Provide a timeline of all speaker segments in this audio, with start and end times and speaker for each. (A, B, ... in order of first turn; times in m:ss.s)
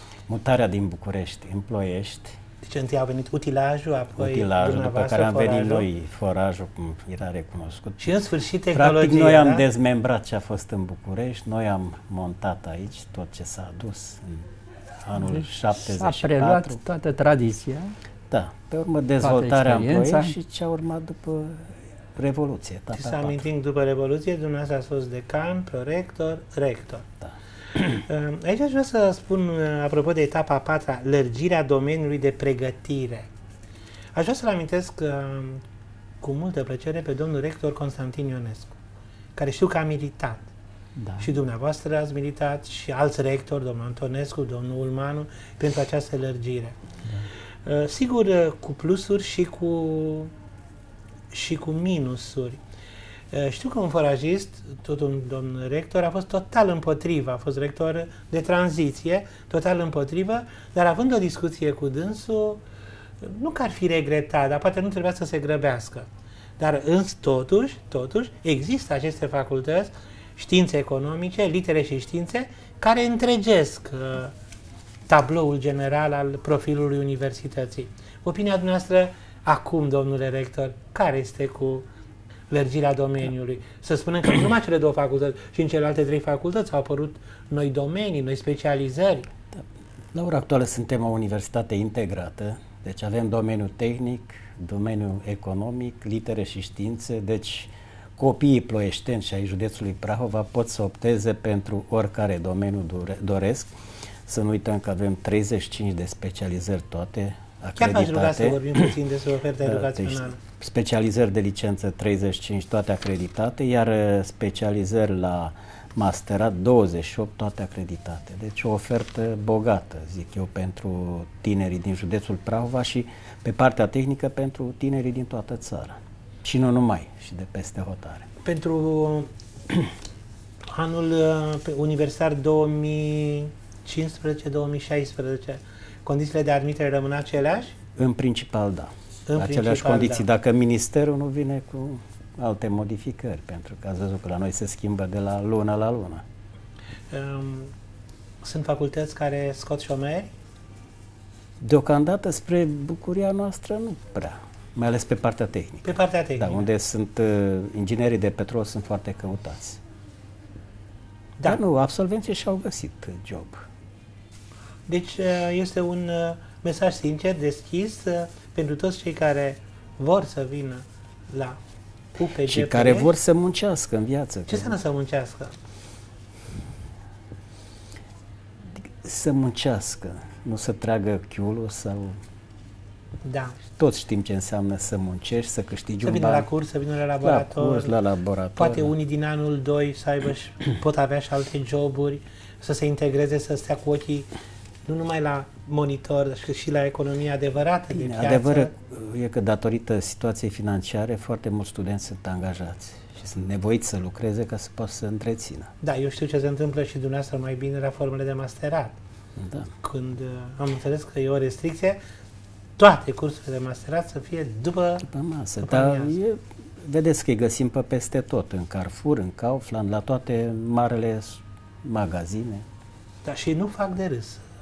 0:00.3-0:02.4 A
0:02.6-0:05.9 B
0:04.2-0:08.1 A
0:08.0-0:09.6 B
0:08.7-0:14.5 A
0:15.0-0:16.8 A
0:15.2-0:17.9 C
0:18.3-0:23.4 A
0:19.2-0:20.3 C
0:22.9-0:27.0 B
0:27.9-0:33.3 B
0:34.1-0:35.6 B
0:36.2-0:38.7 B
0:39.4-0:40.4 B
0:41.0-0:41.3 C
0:41.2-0:46.8 B
0:47.6-0:50.3 B
0:51.3-0:52.6 B
0:53.3-1:02.6 B
1:03.2-1:06.1 B
1:06.6-1:14.3 B
1:15.1-1:21.8 B
1:22.5-1:29.3 B
1:29.5-1:43.7 A
1:44.2-1:48.9 A
1:47.8-1:50.4 B
1:49.6-2:08.3 A
2:08.4-2:09.3 B
2:10.7-2:17.7 B
2:18.0-2:26.2 A
2:19.3-2:20.2 B
2:27.1-2:27.7 B
2:28.4-2:30.3 B
2:31.6-2:39.8 A
2:35.8-2:36.6 B
2:41.4-2:43.6 A
2:44.9-2:51.6 B
2:52.2-2:53.1 B
2:52.5-2:54.8 A
2:54.5-2:55.5 B
2:58.8-3:02.2 A
3:03.2-3:03.6 B
3:03.8-3:06.5 A
3:06.0-3:07.9 B
3:07.2-3:08.9 A
3:08.6-3:14.3 B
3:14.8-3:18.7 B
3:17.9-3:25.7 A
3:25.8-3:29.0 B
3:29.4-3:29.7 A
3:29.8-3:32.0 B
3:32.8-3:35.0 B
3:35.0-3:42.6 A
3:35.6-3:36.1 B
3:43.2-3:44.4 B